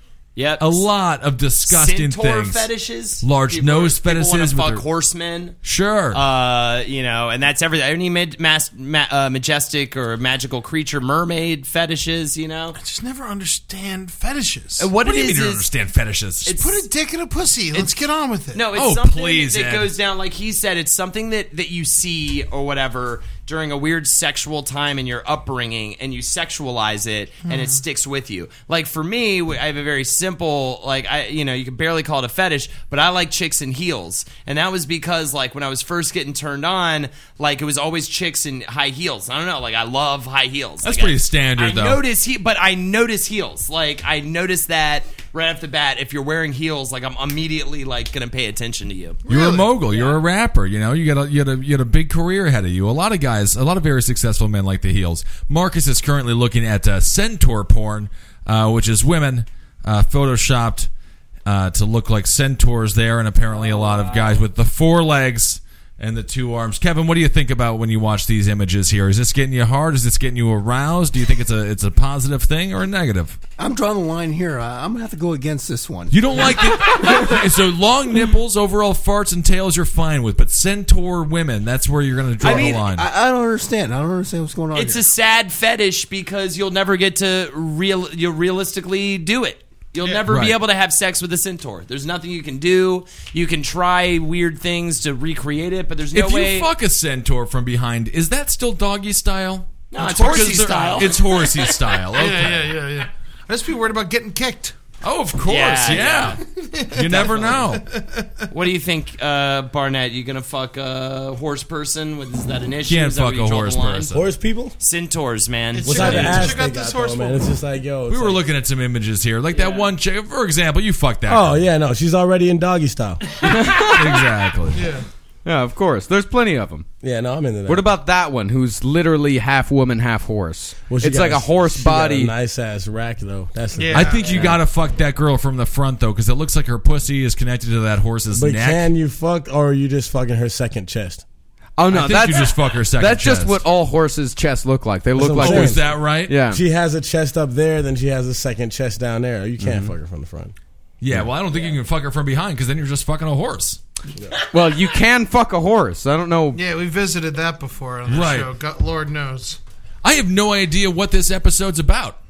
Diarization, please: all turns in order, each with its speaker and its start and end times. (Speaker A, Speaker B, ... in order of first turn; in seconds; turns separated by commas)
Speaker A: 0.4-0.9, Speaker B: 0.6-2.7, Speaker A: 1.7-5.6, Speaker B: 3.2-4.8, Speaker B: 5.6-6.2, Speaker A: 6.1-12.8, Speaker C: 12.8-14.9, Speaker A: 14.8-15.7, Speaker B: 15.0-16.5, Speaker A: 16.4-16.9, Speaker C: 16.6-18.6, Speaker A: 18.5-49.2, Speaker B: 18.8-19.9, Speaker C: 27.5-27.8, Speaker B: 40.8-42.0, Speaker C: 49.3-50.2, Speaker B: 49.3-60.9, Speaker B: 61.5-73.4, Speaker A: 63.6-64.4, Speaker D: 73.6-76.8, Speaker B: 76.1-83.1, Speaker D: 82.4-85.0, Speaker A: 82.4-82.8, Speaker A: 84.7-96.7, Speaker B: 90.3-90.6, Speaker B: 96.1-102.7, Speaker A: 99.9-101.8, Speaker C: 100.0-101.5, Speaker C: 102.1-104.8, Speaker B: 105.0-106.4, Speaker A: 105.5-106.4, Speaker C: 106.5-108.5, Speaker B: 106.9-107.8, Speaker A: 107.1-107.6, Speaker A: 108.5-114.1, Speaker B: 112.9-114.2, Speaker E: 114.1-114.8, Speaker A: 114.8-116.5, Speaker C: 115.7-117.5, Speaker E: 115.8-118.4, Speaker B: 116.2-116.4, Speaker B: 118.1-121.7, Speaker A: 119.5-119.9, Speaker E: 121.3-123.2, Speaker F: 123.4-124.3, Speaker B: 123.7-124.8, Speaker C: 124.7-125.1, Speaker F: 125.5-126.9, Speaker E: 127.0-127.9, Speaker F: 127.7-132.3, Speaker E: 130.9-134.5, Speaker C: 133.8-134.5, Speaker B: 133.9-138.9, Speaker E: 138.3-141.2, Speaker F: 141.8-146.6, Speaker B: 141.9-143.7, Speaker E: 145.2-150.6, Speaker B: 145.4-146.4, Speaker F: 149.6-149.9, Speaker B: 151.0-153.8, Speaker F: 154.5-156.6, Speaker C: 156.5-159.6, Speaker B: 158.1-158.5, Speaker B: 160.0-162.2